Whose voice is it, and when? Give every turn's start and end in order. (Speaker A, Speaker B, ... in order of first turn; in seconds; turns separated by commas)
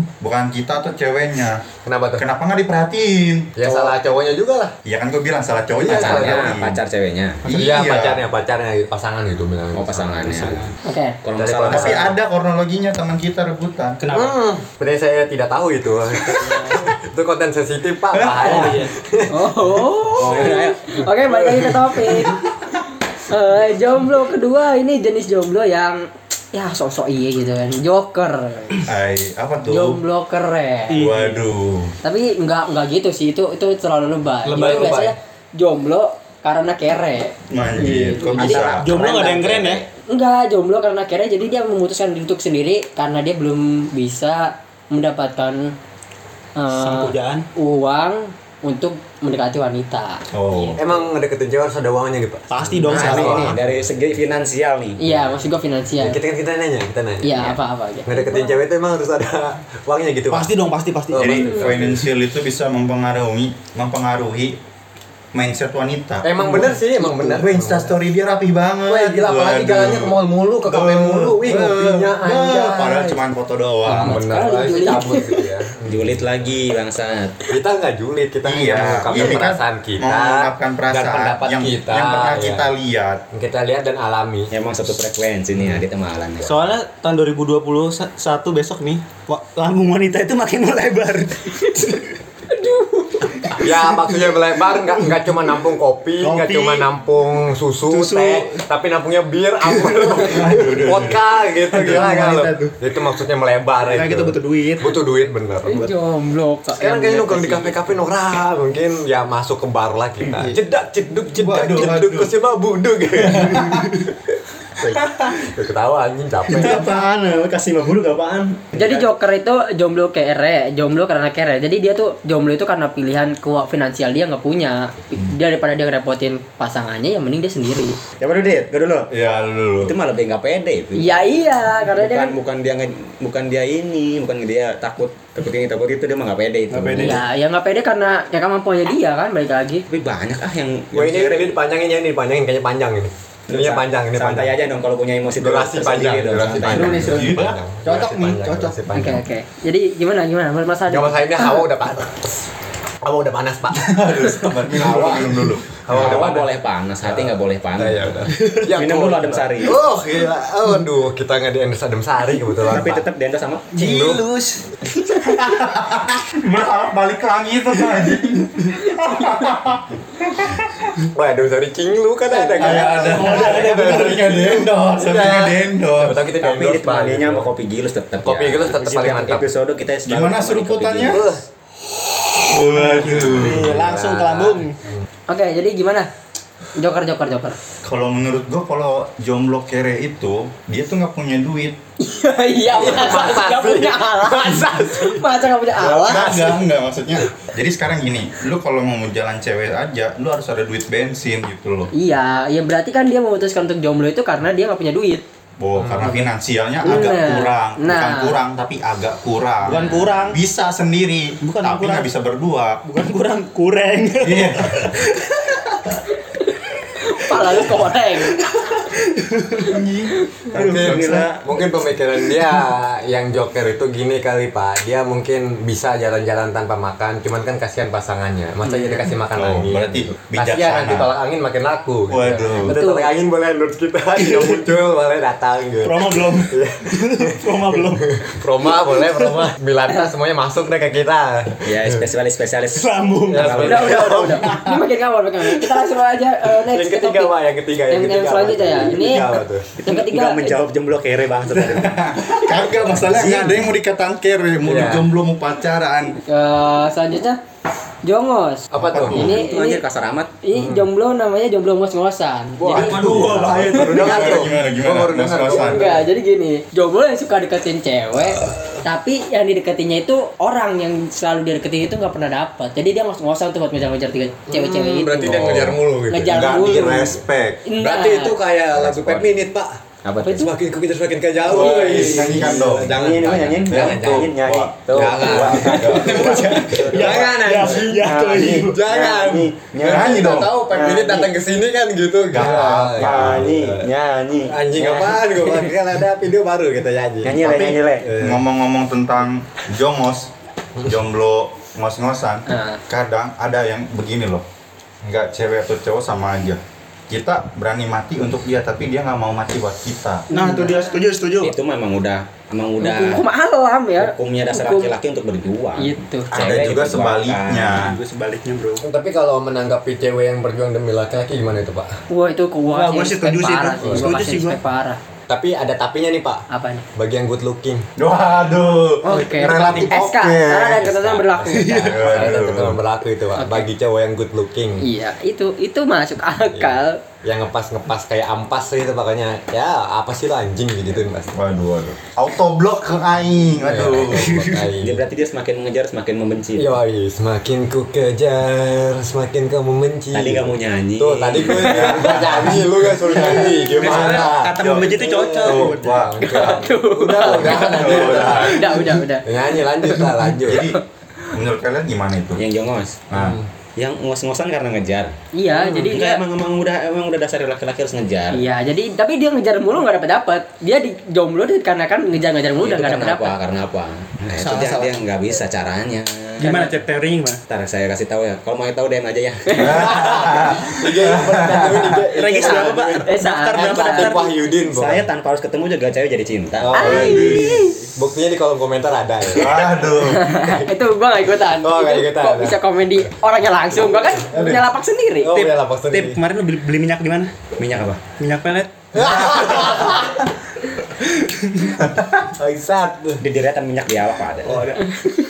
Speaker A: 0.2-1.6, Speaker B: 1.8-2.2, Speaker A: 2.2-3.9, Speaker B: 3.5-4.7, Speaker A: 4.8-6.8, Speaker B: 5.7-6.6, Speaker C: 5.9-7.4, Speaker A: 7.4-8.2, Speaker B: 7.5-10.7, Speaker C: 9.7-10.7, Speaker D: 10.8-11.2, Speaker C: 11.2-12.1, Speaker B: 11.3-12.1, Speaker A: 11.7-14.0, Speaker E: 14.0-14.3, Speaker B: 14.1-19.5, Speaker A: 18.1-18.7, Speaker E: 18.4-18.9, Speaker D: 19.3-22.4, Speaker C: 20.2-21.0, Speaker B: 21.3-21.7, Speaker D: 23.3-28.8, Speaker A: 28.8-30.0, Speaker D: 29.7-31.0, Speaker E: 30.9-31.4, Speaker A: 30.9-31.9, Speaker D: 32.0-38.6, Speaker B: 34.4-35.1, Speaker A: 37.5-39.1, Speaker C: 38.3-39.8, Speaker E: 38.4-39.8, Speaker D: 40.1-45.7, Speaker D: 46.5-50.2, Speaker E: 46.7-47.5, Speaker A: 50.3-50.8, Speaker B: 50.8-53.9, Speaker E: 52.5-53.6, Speaker C: 52.9-55.0, Speaker D: 55.0-56.2, Speaker B: 55.0-55.4, Speaker B: 56.0-60.5, Speaker D: 57.2-58.5, Speaker E: 60.3-61.5, Speaker B: 61.1-62.1, Speaker A: 61.1-64.6, Speaker A: 65.3-74.2, Speaker B: 66.2-67.9, Speaker B: 68.8-73.2, Speaker B: 73.8-76.2, Speaker D: 74.0-75.5, Speaker C: 75.9-77.4, Speaker B: 77.5-82.7, Speaker A: 78.4-83.2, Speaker B: 83.3-84.5, Speaker C: 84.5-86.7, Speaker E: 86.4-92.2, Speaker D: 92.5-93.5, Speaker B: 93.6-105.8, Speaker E: 96.2-96.9, Speaker E: 97.9-98.6, Speaker E: 99.7-100.1, Speaker A: 100.2-101.2, Speaker E: 101.6-102.7, Speaker E: 103.8-104.9, Speaker D: 105.7-107.8, Speaker B: 106.7-113.9, Speaker A: 111.4-112.3, Speaker E: 113.3-114.0, Speaker A: 113.5-113.8, Speaker B: 114.8-116.8, Speaker E: 116.5-117.7, Speaker C: 116.7-119.1, Speaker D: 118.7-128.0, Speaker C: 128.2-129.1, Speaker A: 129.1-129.9, Speaker C: 129.8-131.3, Speaker D: 130.9-132.3, Speaker C: 131.8-137.2, Speaker E: 136.7-137.2, Speaker D: 137.0-139.8, Speaker C: 139.9-141.5, Speaker B: 140.9-144.6, Speaker C: 143.5-147.3, Speaker B: 145.4-149.2, Speaker A: 146.6-147.6, Speaker E: 146.9-148.8, Speaker D: 148.9-151.6, Speaker B: 150.9-153.9, Speaker A: 153.7-156.2, Speaker B: 154.6-156.5, Speaker C: 155.9-158.2, Speaker B: 157.0-163.0, Speaker C: 158.7-159.7, Speaker C: 162.7-163.8, Speaker E: 163.7-164.7, Speaker B: 163.8-164.2, Speaker E: 165.2-165.6, Speaker A: 165.3-170.9, Speaker E: 166.4-166.8, Speaker E: 167.7-168.1, Speaker B: 171.1-174.3, Speaker E: 172.6-174.7, Speaker A: 172.6-176.2, Speaker B: 175.0-177.5, Speaker C: 176.4-181.2, Speaker B: 178.2-179.5, Speaker A: 180.1-181.2, Speaker B: 181.1-181.4, Speaker A: 182.4-183.8, Speaker E: 182.7-184.7, Speaker B: 183.1-185.0, Speaker D: 185.3-186.1, Speaker D: 186.7-187.6, Speaker A: 187.8-191.8, Speaker D: 192.0-196.3, Speaker B: 192.7-195.2, Speaker B: 195.7-196.6, Speaker A: 195.9-201.9, Speaker D: 201.9-205.2, Speaker A: 205.6-212.8, Speaker B: 205.8-206.2, Speaker D: 206.8-208.4, Speaker E: 209.6-210.4, Speaker E: 211.4-212.1, Speaker E: 212.8-216.0, Speaker A: 214.2-215.1, Speaker E: 216.9-221.0, Speaker D: 217.0-218.5, Speaker B: 220.5-237.4, Speaker A: 220.5-221.2, Speaker C: 220.7-221.4, Speaker D: 228.6-229.1, Speaker A: 229.3-231.1, Speaker A: 232.1-232.8, Speaker D: 232.6-233.1, Speaker E: 234.2-234.6, Speaker E: 235.8-238.2, Speaker B: 238.0-242.0, Speaker C: 241.6-244.0, Speaker E: 242.7-243.7, Speaker B: 243.3-244.4, Speaker D: 243.5-247.3, Speaker E: 244.3-244.7, Speaker E: 245.6-245.8, Speaker B: 246.7-249.7, Speaker D: 247.9-249.3, Speaker C: 249.8-251.9, Speaker D: 249.8-250.6, Speaker A: 251.5-256.2, Speaker C: 253.1-253.6, Speaker B: 254.6-255.1, Speaker D: 256.3-257.4, Speaker D: 258.0-259.8, Speaker B: 258.7-259.3, Speaker A: 258.7-259.4, Speaker C: 259.1-260.3, Speaker D: 260.4-263.0, Speaker B: 260.5-260.9, Speaker B: 262.6-266.1, Speaker C: 262.7-263.6, Speaker E: 262.7-264.4, Speaker A: 263.0-265.8, Speaker D: 265.5-275.5, Speaker B: 268.3-268.8, Speaker B: 274.5-276.5, Speaker D: 276.1-278.4, Speaker A: 276.3-277.6, Speaker B: 277.8-293.9, Speaker C: 278.7-279.3, Speaker C: 280.0-280.5, Speaker D: 280.2-280.5, Speaker A: 281.4-282.9, Speaker C: 281.4-290.1, Speaker A: 283.7-287.4, Speaker E: 286.4-288.8, Speaker A: 289.9-290.5, Speaker C: 290.7-291.3, Speaker A: 292.3-293.5, Speaker C: 292.9-295.2, Speaker B: 294.4-297.5, Speaker C: 297.2-298.1, Speaker A: 297.4-304.4, Speaker B: 298.0-298.4, Speaker D: 302.5-302.8, Speaker A: 305.0-310.3, Speaker E: 310.3-311.5, Speaker D: 310.3-311.0, Speaker C: 311.4-313.2, Speaker D: 312.8-314.9, Speaker C: 314.0-317.8, Speaker D: 315.8-316.3, Speaker A: 316.3-318.0, Speaker E: 317.7-318.8, Speaker B: 318.8-322.0, Speaker D: 322.1-325.0, Speaker E: 322.7-324.6, Speaker B: 323.8-324.3, Speaker B: 325.3-326.4, Speaker D: 326.5-326.8, Speaker B: 326.9-327.9, Speaker A: 328.0-330.3, Speaker D: 329.0-332.0, Speaker E: 329.1-330.0, Speaker B: 329.4-334.9, Speaker E: 331.5-332.2, Speaker A: 331.8-332.8, Speaker D: 333.4-333.7, Speaker D: 334.8-337.0, Speaker B: 336.5-341.4, Speaker A: 341.3-344.3, Speaker B: 343.6-345.0, Speaker E: 344.3-344.6, Speaker C: 344.8-346.8, Speaker B: 346.6-360.6, Speaker C: 350.1-351.9, Speaker A: 351.5-356.6, Speaker E: 353.1-356.0, Speaker D: 356.3-360.8, Speaker A: 357.1-358.9, Speaker A: 360.4-362.4, Speaker C: 362.4-363.0, Speaker A: 363.1-363.4, Speaker B: 363.1-363.4, Speaker C: 363.8-368.5, Speaker D: 365.3-366.2, Speaker D: 368.3-373.4, Speaker C: 372.6-376.5, Speaker E: 374.3-375.0, Speaker E: 376.4-377.4, Speaker D: 376.4-376.7, Speaker C: 377.5-379.9, Speaker A: 379.6-382.3, Speaker B: 379.8-385.1, Speaker C: 382.1-382.9, Speaker E: 382.1-384.1, Speaker D: 383.0-384.1, Speaker C: 383.9-386.9, Speaker B: 386.6-389.7, Speaker D: 386.7-387.8, Speaker A: 386.8-387.7, Speaker A: 389.3-390.5, Speaker D: 390.1-395.3, Speaker B: 391.6-393.1, Speaker B: 394.1-394.7, Speaker B: 395.2-396.2, Speaker E: 395.3-397.4, Speaker C: 397.6-398.1, Speaker E: 398.1-400.1, Speaker B: 398.9-400.2, Speaker E: 401.0-401.8, Speaker A: 401.8-402.2, Speaker B: 402.4-403.2, Speaker C: 403.2-404.7, Speaker E: 404.5-404.8